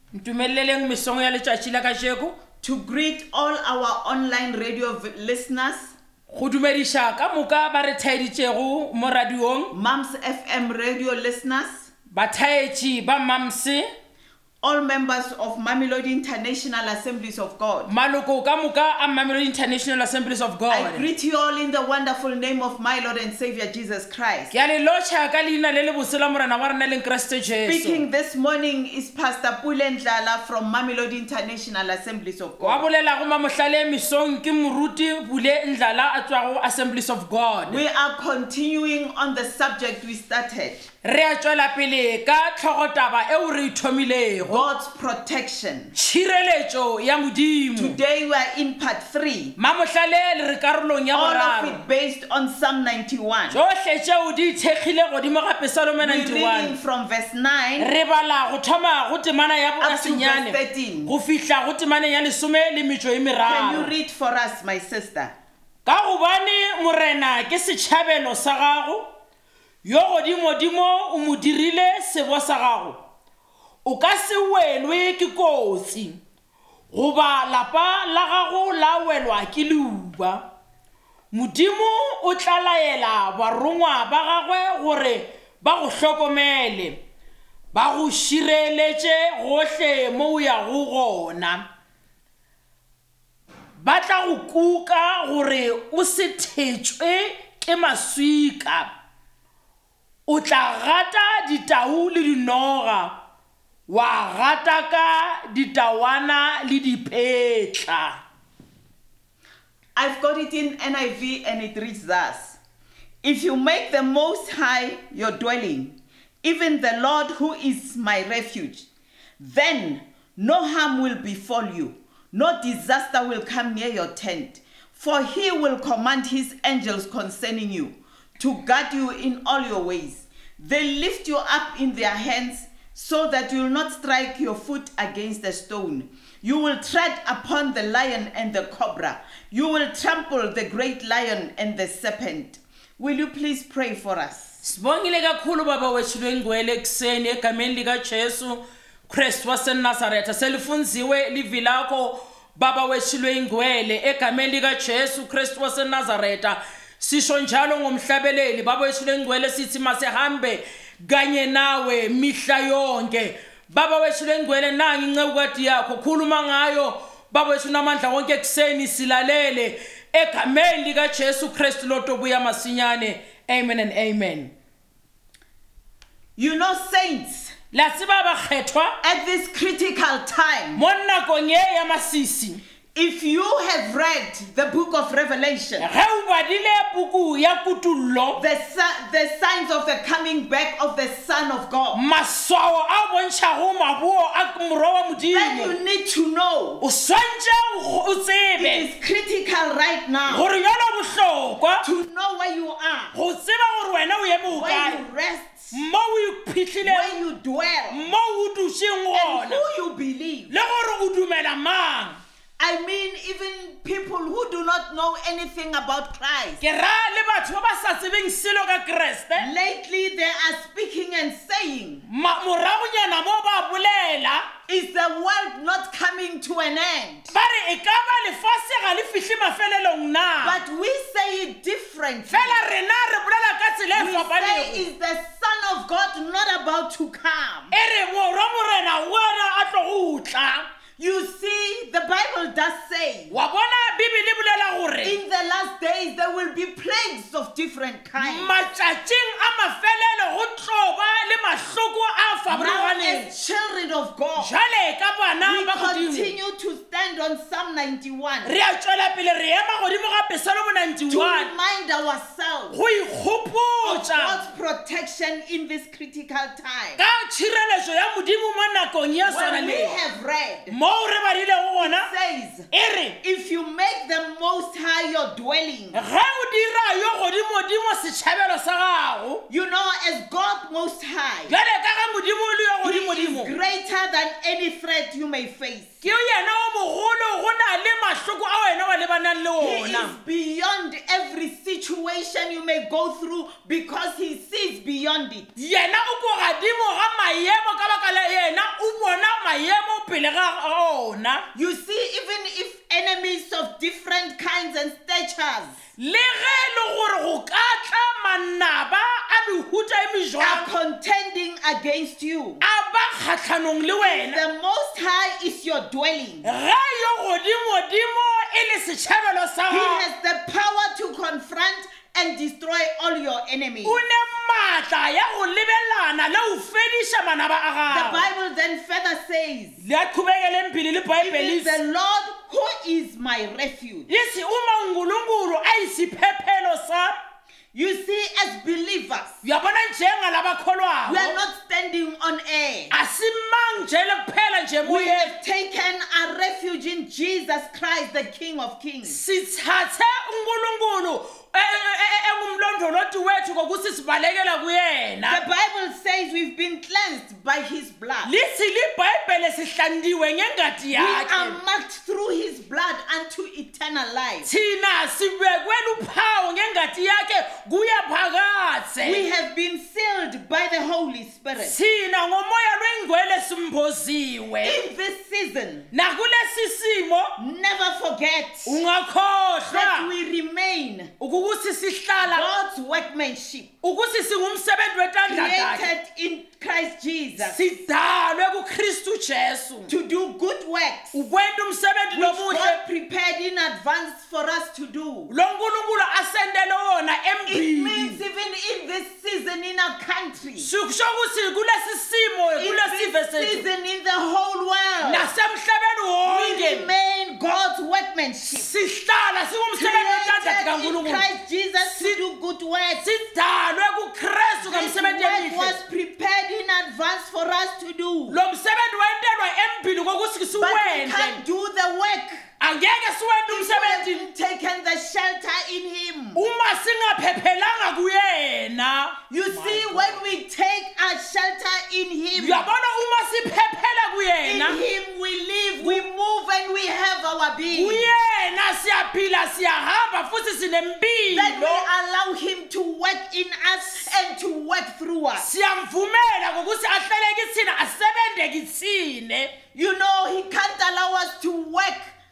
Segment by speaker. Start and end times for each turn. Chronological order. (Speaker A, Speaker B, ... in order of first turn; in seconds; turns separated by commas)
Speaker A: 0.1-2.4, Speaker B: 2.6-5.9, Speaker A: 6.3-9.7, Speaker B: 9.7-11.9, Speaker A: 12.1-13.9, Speaker B: 14.6-17.9, Speaker A: 17.9-21.1, Speaker B: 20.7-24.5, Speaker A: 24.5-28.0, Speaker B: 27.6-32.8, Speaker A: 32.6-37.8, Speaker B: 37.7-40.8, Speaker A: 41.0-44.6, Speaker B: 44.4-45.9, Speaker A: 46.0-48.0, Speaker B: 47.8-49.5, Speaker A: 49.6-51.8, Speaker B: 51.1-53.6, Speaker A: 53.5-56.8, Speaker B: 56.0-57.9, Speaker A: 57.8-63.9, Speaker B: 59.8-61.1, Speaker B: 63.4-65.3, Speaker A: 65.8-69.1, Speaker A: 69.8-73.0, Speaker A: 73.8-76.2, Speaker A: 76.9-80.5, Speaker A: 81.3-87.0, Speaker A: 87.7-91.7, Speaker A: 93.8-98.9, Speaker A: 100.3-103.2, Speaker A: 103.9-108.2, Speaker B: 110.0-112.6, Speaker B: 113.2-118.8, Speaker B: 119.4-144.6, Speaker A: 144.6-174.5, Speaker B: 176.3-177.5, Speaker A: 177.7-178.9, Speaker B: 179.0-180.8, Speaker A: 180.7-182.6, Speaker B: 182.9-185.9, Speaker A: 185.8-188.4, Speaker B: 188.3-192.0, Speaker A: 191.9-195.8, Speaker B: 195.3-196.8, Speaker A: 196.8-198.9, Speaker B: 198.6-200.5, Speaker A: 200.3-201.8, Speaker B: 201.8-203.1, Speaker A: 203.1-205.0, Speaker B: 204.5-205.8, Speaker A: 205.7-207.1, Speaker B: 206.8-208.1, Speaker A: 207.9-209.6, Speaker B: 209.1-210.5, Speaker A: 210.5-212.2, Speaker B: 212.6-216.6, Speaker A: 216.6-219.5, Speaker B: 219.3-222.1, Speaker A: 222.1-224.5, Speaker B: 224.7-227.3, Speaker A: 227.3-230.6, Speaker B: 230.4-232.6, Speaker A: 232.3-234.8, Speaker B: 233.9-237.8, Speaker A: 237.7-240.7, Speaker B: 241.0-243.3, Speaker A: 243.3-245.2, Speaker B: 245.0-248.5, Speaker A: 248.2-253.3, Speaker B: 252.5-254.5, Speaker A: 254.3-256.4, Speaker B: 255.4-258.5, Speaker A: 258.4-261.5, Speaker B: 261.1-262.8, Speaker A: 262.7-264.4, Speaker B: 263.8-267.0, Speaker A: 267.0-270.0, Speaker B: 269.2-270.7, Speaker A: 270.7-272.1, Speaker B: 271.8-272.7, Speaker A: 272.7-273.2, Speaker B: 273.2-276.0, Speaker A: 275.9-279.4, Speaker B: 279.5-281.5, Speaker A: 281.5-283.6, Speaker B: 282.8-286.0, Speaker A: 286.0-290.1, Speaker B: 289.6-295.5, Speaker A: 295.6-301.5, Speaker B: 301.5-305.7, Speaker A: 306.0-310.7, Speaker B: 310.4-312.6, Speaker A: 312.6-314.4, Speaker B: 314.0-316.5, Speaker A: 316.4-320.1, Speaker B: 319.7-324.0, Speaker A: 323.8-328.3, Speaker B: 327.9-329.8, Speaker A: 329.8-331.8, Speaker B: 331.2-334.1, Speaker A: 334.1-337.2, Speaker B: 337.7-339.4, Speaker A: 339.4-341.4, Speaker B: 341.0-342.9, Speaker A: 342.9-345.3, Speaker B: 344.8-349.2, Speaker A: 349.0-355.4, Speaker B: 355.3-358.3, Speaker A: 358.2-361.6, Speaker B: 360.9-364.5, Speaker A: 364.4-369.3, Speaker B: 369.0-371.8, Speaker A: 371.6-374.8, Speaker B: 374.6-375.9, Speaker A: 375.9-377.3, Speaker B: 377.4-378.8, Speaker A: 378.6-380.1, Speaker B: 379.7-381.1, Speaker A: 381.2-382.5, Speaker B: 382.2-383.7, Speaker A: 383.8-385.9, Speaker B: 385.2-387.6, Speaker A: 387.4-389.9, Speaker B: 389.9-391.2, Speaker A: 391.1-392.8, Speaker B: 392.1-395.3, Speaker A: 395.3-398.2, Speaker B: 397.5-400.7, Speaker A: 400.6-403.6, Speaker B: 402.6-405.3, Speaker A: 405.0-406.9, Speaker B: 406.2-408.7, Speaker A: 408.5-411.2, Speaker B: 409.8-413.0, Speaker A: 413.0-415.8, Speaker B: 414.6-418.4, Speaker A: 418.3-421.4, Speaker B: 420.5-422.4, Speaker A: 422.6-424.3, Speaker B: 423.5-426.4, Speaker A: 426.3-430.3, Speaker B: 429.3-432.7, Speaker A: 432.3-434.8, Speaker B: 434.4-438.1, Speaker A: 437.7-441.9, Speaker B: 441.3-445.5, Speaker A: 445.4-449.5, Speaker B: 449.7-452.1